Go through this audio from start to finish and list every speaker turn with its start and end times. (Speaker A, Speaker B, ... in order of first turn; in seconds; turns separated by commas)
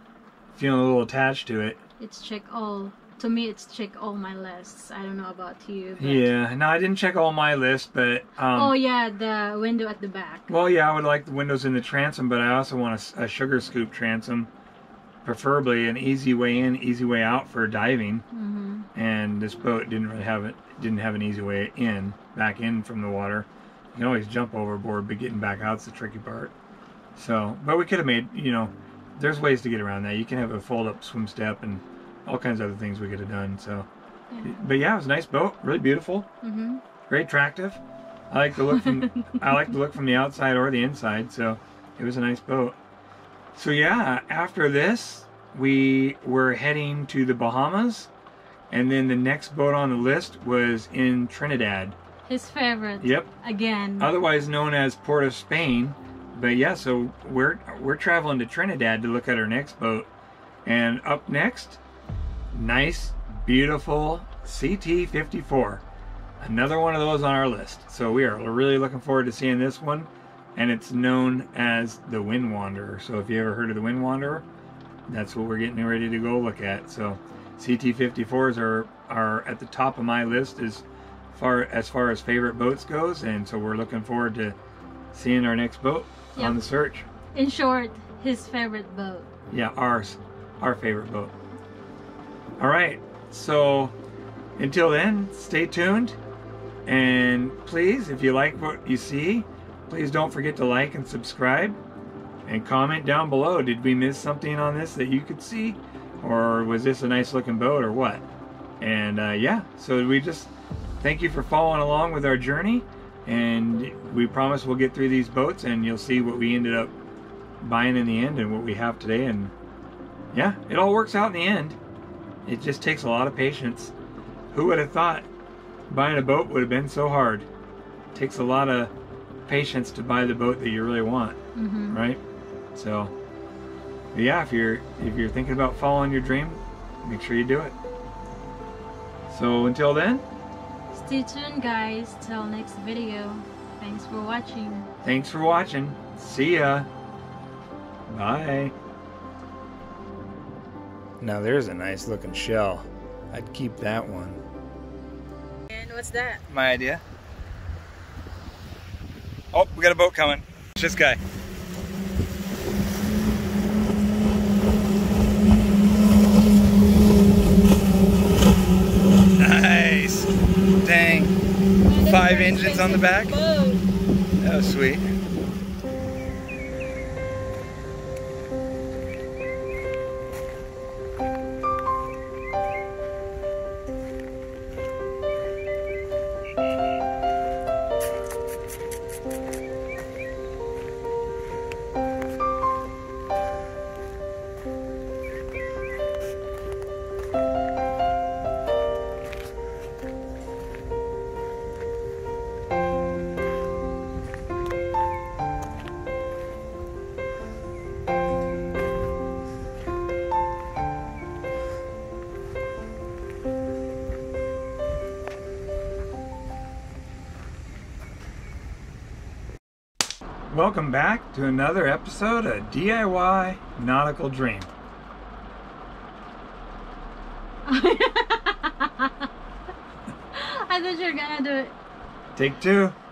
Speaker A: 0.5-1.8, Speaker B: 2.0-6.3, Speaker A: 6.0-8.8, Speaker B: 8.5-10.5, Speaker A: 10.5-14.5, Speaker A: 15.2-18.2, Speaker B: 18.3-18.9, Speaker A: 18.9-26.5, Speaker A: 27.1-33.9, Speaker B: 34.3-34.6, Speaker A: 34.4-36.3, Speaker B: 36.4-36.8, Speaker A: 37.1-42.8, Speaker B: 38.6-39.8, Speaker A: 43.5-48.1, Speaker A: 48.7-52.0, Speaker B: 52.2-54.1, Speaker A: 53.0-53.3, Speaker A: 54.0-60.1, Speaker A: 60.6-61.8, Speaker A: 62.5-65.8, Speaker A: 66.4-74.5, Speaker A: 75.1-84.6, Speaker A: 85.1-87.1, Speaker B: 86.4-86.6, Speaker B: 87.3-89.3, Speaker A: 89.5-91.3, Speaker A: 92.6-93.9, Speaker A: 94.6-96.2, Speaker A: 96.9-101.8, Speaker A: 102.5-108.3, Speaker A: 108.8-116.9, Speaker A: 117.6-119.5, Speaker A: 120.3-121.8, Speaker A: 122.5-123.9, Speaker A: 124.5-125.3, Speaker A: 125.9-127.5, Speaker A: 128.1-128.9, Speaker A: 129.5-131.4, Speaker B: 131.6-132.0, Speaker A: 131.9-132.2, Speaker A: 132.8-133.1, Speaker A: 134.1-137.8, Speaker A: 139.3-140.2, Speaker B: 140.9-144.9, Speaker A: 145.0-146.9, Speaker A: 148.1-148.7, Speaker C: 151.2-154.4, Speaker B: 155.7-156.4, Speaker A: 156.5-157.0, Speaker A: 159.5-161.2, Speaker A: 169.4-170.3, Speaker A: 170.8-171.3, Speaker B: 171.8-173.8, Speaker A: 172.1-173.3, Speaker A: 174.4-175.0, Speaker A: 220.5-224.7, Speaker B: 227.7-229.3, Speaker B: 230.3-231.8, Speaker A: 232.3-233.0